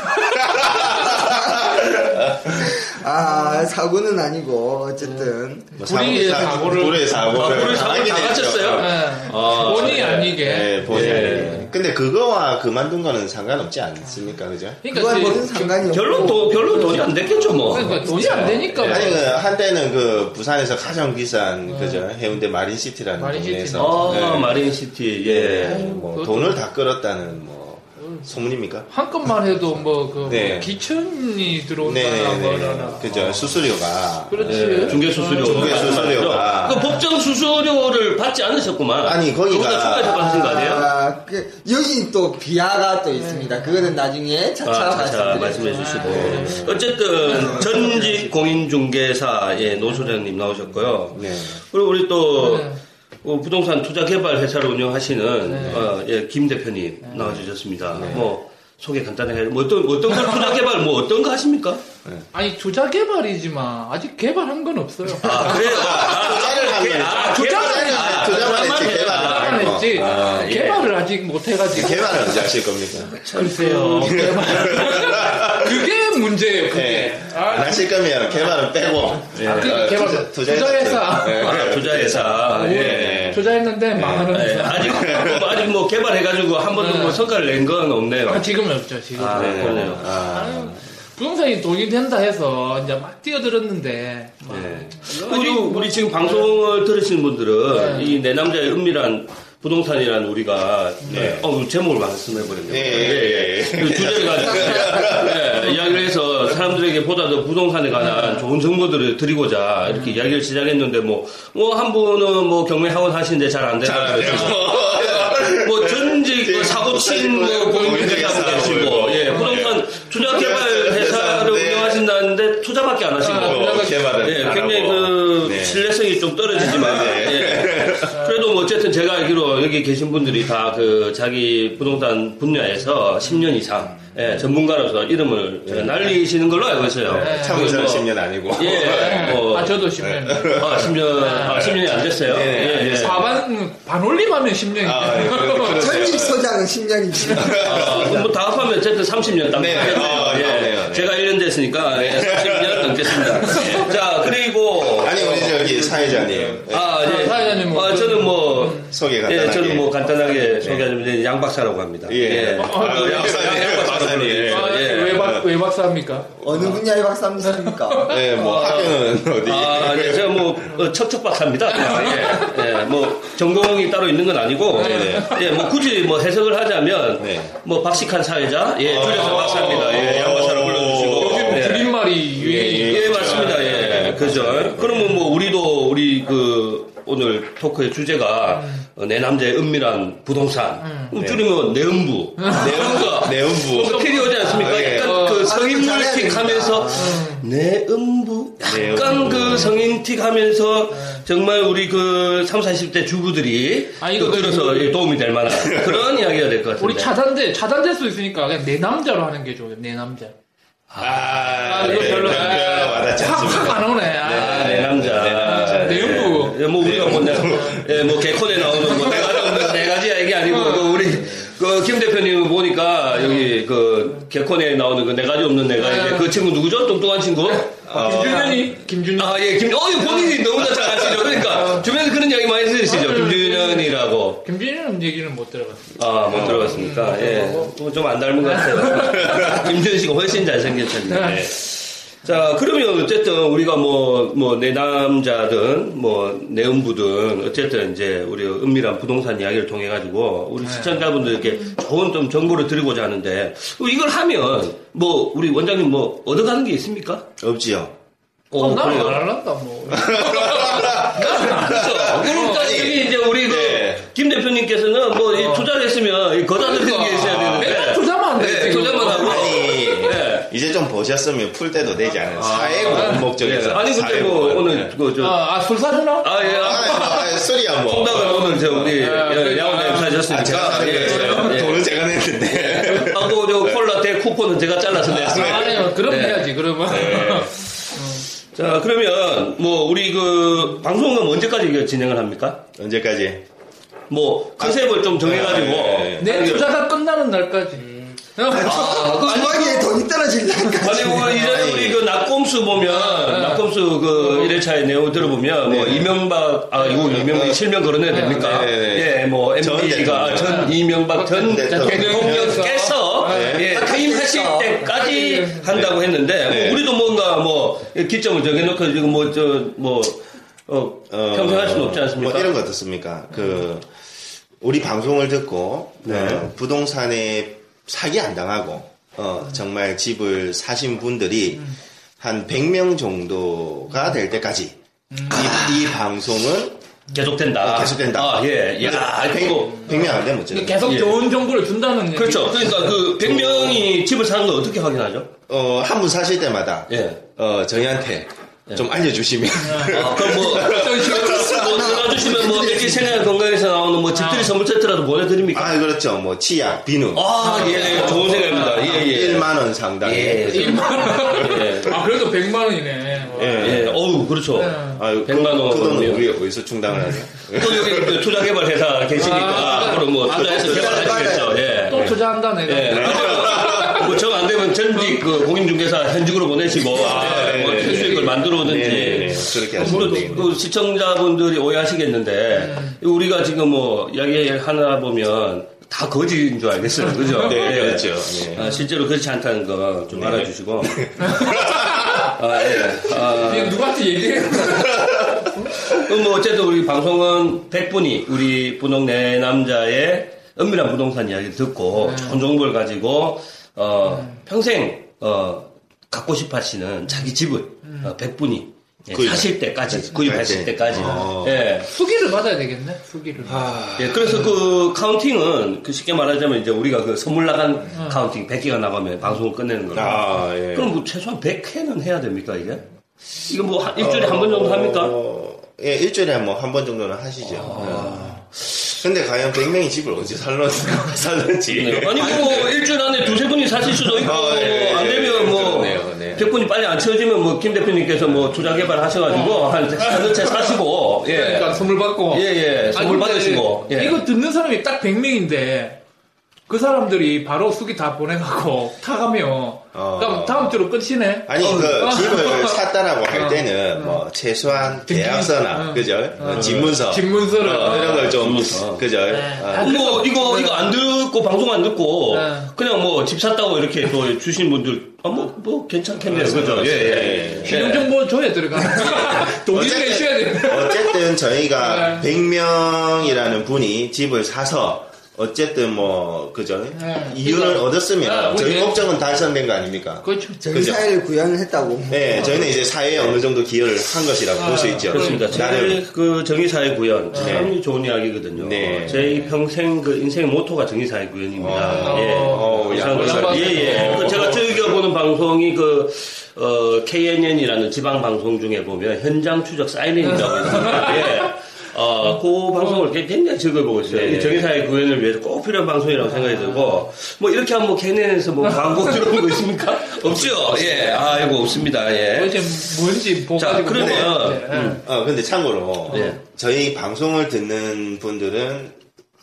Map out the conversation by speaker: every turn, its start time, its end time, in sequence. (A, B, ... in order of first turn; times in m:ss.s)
0:00.4-0:02.7 A
0:01.0-0:05.8 B
0:03.3-0:03.7 C
0:05.0-0:07.6 C
0:05.8-0:14.8 A
0:06.1-0:06.5 D
0:07.3-0:10.3 D
0:07.4-0:08.3 B
0:08.7-0:11.7 C
0:10.9-0:11.6 D
0:14.8-0:19.3 C
0:14.9-0:17.2 B
0:15.9-0:19.3 D
0:17.1-0:24.6 A
0:17.8-0:18.5 B
0:21.7-0:22.1 C
0:23.2-0:24.5 C
0:23.8-0:25.9 D
0:25.2-0:30.8 A
0:25.6-0:26.6 C
0:28.9-0:33.5 C
0:31.8-0:37.0 A
0:34.3-0:37.0 C
0:34.4-0:40.9 D
0:39.0-0:40.3 A
0:40.0-0:45.9 B
0:43.1-0:44.0 C
0:44.6-1:01.8 D
0:45.3-0:46.6 C
0:46.1-0:46.9 A
0:47.2-0:48.3 B
0:51.1-0:51.6 A
0:52.4-0:52.8 C
0:55.4-0:55.9 C
0:55.6-0:55.9 A
0:57.2-0:58.3 A
0:58.0-0:58.3 C
1:00.2-1:00.6 C
1:02.3-1:06.4 C
1:05.2-1:11.0 D
1:05.5-1:10.6 A
1:07.0-1:12.4 C
1:11.7-1:13.1 A
1:13.0-1:14.8 D
1:13.3-1:18.5 C
1:14.0-1:15.9 A
1:16.7-1:25.6 A
1:19.4-1:19.9 D
1:19.4-1:21.6 C
1:21.3-1:23.4 D
1:22.4-1:25.2 C
1:24.3-1:28.5 D
1:26.8-1:27.2 C
1:28.3-1:36.6 C
1:29.2-1:30.1 D
1:29.3-1:30.9 A
1:34.5-2:19.9 D
1:37.7-1:38.2 C
1:41.1-1:41.5 A
1:42.6-1:45.8 A
1:44.5-1:45.2 B
1:48.0-1:48.4 C
1:49.9-1:50.2 C
1:53.8-2:02.0 A
1:57.6-1:58.6 C
2:03.2-2:04.7 C
2:03.2-2:05.9 A
2:06.6-2:08.2 A
2:06.7-2:07.0 C
2:08.1-2:08.4 C
2:15.6-2:16.2 A
2:17.0-2:20.9 A
2:17.1-2:17.8 C
2:18.6-2:21.8 C
2:20.6-2:23.3 D
2:21.5-2:23.4 A
2:22.7-2:25.8 C
2:24.8-2:26.4 A
2:25.7-2:28.3 B
2:27.3-2:28.3 A
2:27.6-2:35.5 D
2:29.4-2:31.2 A
2:31.9-2:34.0 A
2:35.0-2:37.4 A
2:35.1-2:36.6 B
2:36.7-2:45.3 D
2:37.0-2:38.9 C
2:38.6-2:40.9 A
2:42.0-2:45.5 A
2:42.6-2:46.8 C
2:46.4-2:48.2 B
2:47.5-2:48.2 C
2:48.1-2:50.7 A
2:48.3-3:02.0 D
2:51.7-2:52.6 C
2:54.7-2:55.6 A
2:54.8-2:55.4 C
2:57.2-2:57.6 A
2:58.8-3:05.2 A
2:59.2-3:00.1 C
3:01.1-3:04.2 C
3:02.7-3:27.2 D
3:08.5-3:08.8 C
3:10.8-3:11.1 C
3:11.2-3:11.5 A
3:12.4-3:15.5 C
3:12.5-3:15.3 A
3:15.3-3:17.2 B
3:17.0-3:17.4 C
3:18.6-3:19.8 A
3:18.7-3:19.7 C
3:20.9-3:21.2 C
3:24.0-3:25.0 C
3:25.5-3:26.1 A
3:26.8-3:30.3 C
3:30.9-3:33.0 D
3:31.0-3:39.8 A
3:31.6-3:36.6 C
3:34.2-3:54.4 D
3:37.4-3:37.8 C
3:38.8-3:39.2 C
3:40.5-3:41.3 C
3:43.1-3:43.5 C
3:45.8-3:46.4 C
3:47.5-3:49.4 C
3:47.9-3:48.7 A
3:50.0-3:50.5 C
3:50.8-3:51.4 A
3:51.3-3:51.9 C
3:52.9-3:57.7 C
3:56.0-4:17.3 D
3:56.3-3:56.9 A
3:58.4-3:59.6 C
3:59.3-3:59.5 A
4:01.1-4:01.5 C
4:10.6-4:11.3 C
4:17.4-4:18.0 A
4:18.5-4:19.3 D
4:18.6-4:22.8 C
4:19.9-4:24.1 A
4:21.0-4:30.5 D
4:25.3-4:25.7 C
4:26.6-4:30.0 C
4:29.1-4:35.0 A
4:32.4-4:35.5 D
4:32.8-4:33.3 C
4:35.2-4:37.3 C
4:36.2-4:41.9 D
4:36.6-4:39.0 A
4:38.4-4:41.6 C
4:40.3-4:43.8 A
4:42.5-4:47.4 D
4:45.0-4:45.9 A
4:45.2-4:48.3 C
4:46.9-4:47.5 A
4:48.5-4:52.6 D
4:52.8-4:53.4 A
4:54.1-4:56.8 D
4:54.6-4:56.5 A
4:56.2-4:57.8 C
4:58.4-4:59.8 C
4:58.5-5:01.4 B
4:58.6-4:59.9 D
5:00.8-5:22.6 D
5:01.4-5:02.1 A
5:02.8-5:04.6 C
5:05.6-5:06.2 A
5:06.8-5:07.2 C
5:06.9-5:10.8 A
5:08.1-5:08.6 C
5:10.4-5:13.6 C
5:11.4-5:13.7 A
5:13.5-5:14.9 B
5:14.8-5:15.7 C
5:15.7-5:16.8 A
5:21.1-5:23.9 A
5:24.6-5:34.8 A
5:26.0-5:26.5 D
5:35.1-5:35.4 C
5:35.3-5:36.8 A
5:35.3-5:35.9 D
5:37.1-5:40.1 D
5:37.6-5:41.1 A
5:39.9-5:43.0 C
5:40.8-5:41.3 D
5:42.1-5:45.3 D
5:43.2-5:43.8 A
5:45.5-5:52.0 A
5:46.9-5:47.2 D
5:49.6-5:51.6 C
5:49.9-5:55.8 D
5:51.3-5:53.2 B
5:54.1-5:54.5 C
5:55.5-6:01.8 A
5:57.1-6:02.0 D
5:57.4-5:59.0 C
6:00.5-6:03.9 C
6:03.3-6:04.2 A
6:03.6-6:06.3 D
6:04.5-6:05.0 C
6:04.9-6:08.3 A
6:07.5-6:31.6 D
6:09.2-6:10.8 C
6:09.4-6:11.4 A
6:10.3-6:11.7 B
6:11.9-6:14.2 C
6:12.9-6:14.1 A
6:15.0-6:15.3 C
6:16.8-6:20.6 A
6:16.9-6:20.5 C
6:22.5-6:23.0 C
6:27.1-6:27.5 C
6:27.4-6:28.7 A
6:30.1-6:32.2 A
6:31.2-6:32.3 C
6:32.1-6:33.9 D
6:33.3-6:35.6 C
6:35.9-6:51.9 D
6:42.0-6:42.4 C
6:44.0-6:44.4 C
6:47.8-6:48.1 C
6:49.1-6:51.6 A
6:51.0-6:51.3 C
6:51.8-6:53.7 C
6:53.4-6:54.5 A
6:54.0-7:02.9 D
6:57.9-6:58.2 C
6:59.9-7:00.9 A
7:03.5-7:05.2 D
7:04.0-7:13.4 A
7:07.6-7:08.4 D
7:07.8-7:08.4 C
7:11.7-7:24.2 D
7:13.9-7:16.6 A
7:18.3-7:18.7 A
7:19.3-7:26.0 C
7:26.7-7:34.2 C
7:29.9-7:30.8 A
7:31.5-7:40.2 A
7:31.6-7:32.2 D
7:35.0-7:38.4 C
7:36.5-7:37.0 D
7:37.6-7:39.1 D
7:39.3-7:40.9 C
7:39.8-7:48.1 D
7:42.3-7:42.7 C
7:46.2-7:48.0 A
7:47.6-7:51.2 C
7:48.8-8:01.1 A
7:51.8-7:52.3 C
7:56.9-7:59.1 C
8:00.2-8:00.6 C
8:00.6-8:02.9 B
8:02.1-8:06.0 A
8:04.6-8:05.7 C
8:05.0-8:32.9 D
8:07.3-8:07.7 C
8:07.3-8:07.8 A
8:08.6-8:09.4 A
8:09.1-8:09.5 C
8:11.6-8:14.9 A
8:11.8-8:14.6 C
8:20.2-8:21.5 C
8:22.8-8:23.0 C
8:24.1-8:24.7 A
8:26.3-8:27.1 C
8:28.9-8:29.1 C
8:30.2-8:31.3 A
8:32.3-8:35.0 C
8:33.6-8:35.0 D
8:33.9-8:39.0 A
8:36.1-8:36.4 D